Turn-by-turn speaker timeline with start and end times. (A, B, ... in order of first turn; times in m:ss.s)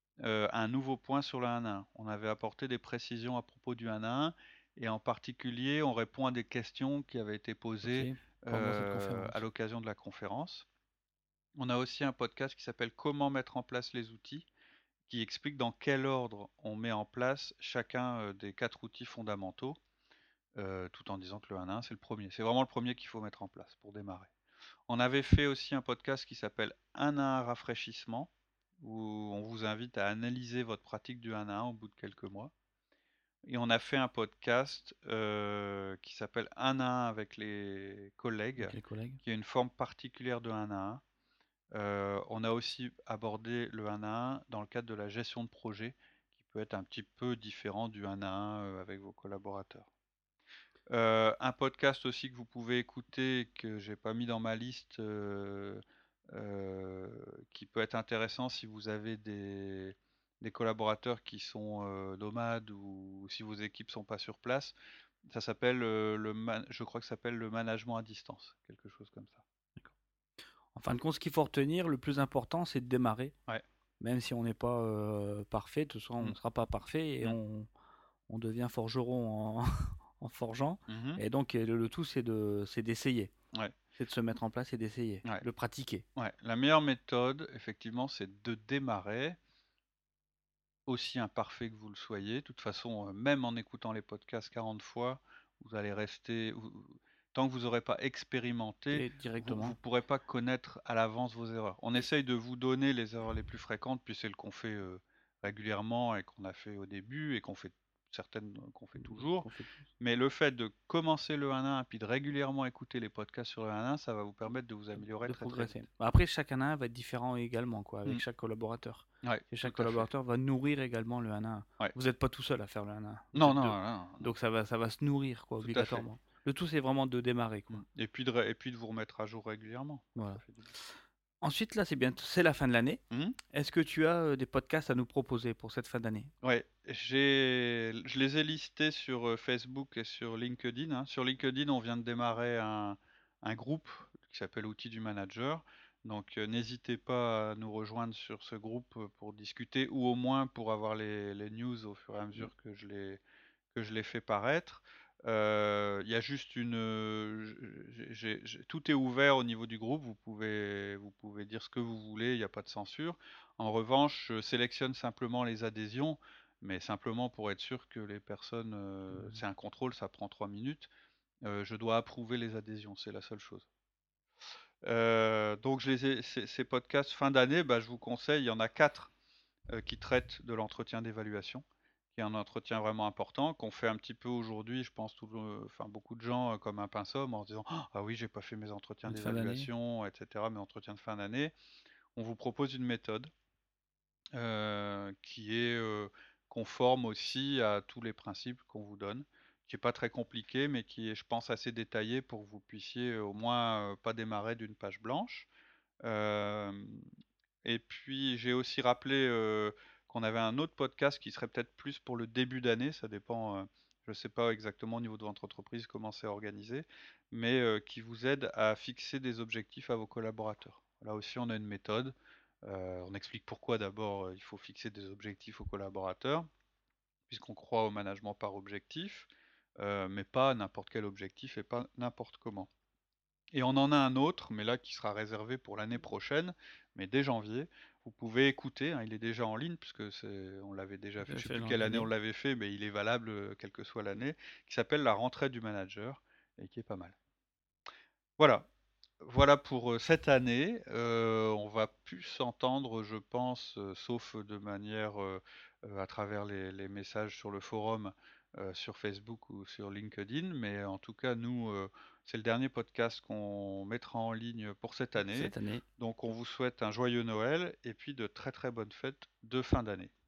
0:00.2-0:10.6 A
0:07.8-0:09.4 B
0:11.6-0:14.5 A
0:15.1-0:19.8 A
0:20.6-0:24.3 A
0:24.9-0:32.5 A
0:33.4-0:41.0 A
0:38.6-0:39.2 B
0:41.7-0:49.9 A
0:50.9-1:04.7 A
1:05.3-1:09.4 A
1:10.7-1:13.3 B
1:14.0-1:17.7 B
1:18.3-1:23.3 B
1:20.9-1:21.2 A
1:24.0-1:26.0 B
1:26.2-1:29.4 A
1:30.9-1:49.5 A
1:38.9-1:39.8 B
1:48.9-1:49.9 B
1:50.0-1:55.8 A
1:55.0-2:07.8 B
1:59.2-2:00.1 A
2:03.3-2:04.3 A
2:05.6-2:06.0 A
2:07.7-2:10.7 A
2:10.2-2:16.3 B
2:13.1-2:13.4 A
2:16.4-2:33.2 A
2:33.7-2:50.9 A
2:49.1-2:49.4 B
2:51.4-2:53.7 A
2:54.8-2:59.1 A
2:59.7-3:11.5 A
3:09.0-3:09.7 B
3:12.1-3:13.3 A
3:14.3-3:25.5 A
3:26.0-3:27.0 A
3:27.6-3:46.5 A
3:47.3-3:52.7 A
3:53.5-4:07.2 A
4:01.2-4:02.1 B
4:08.4-4:08.6 A
4:09.2-4:30.1 A
4:25.2-4:25.8 B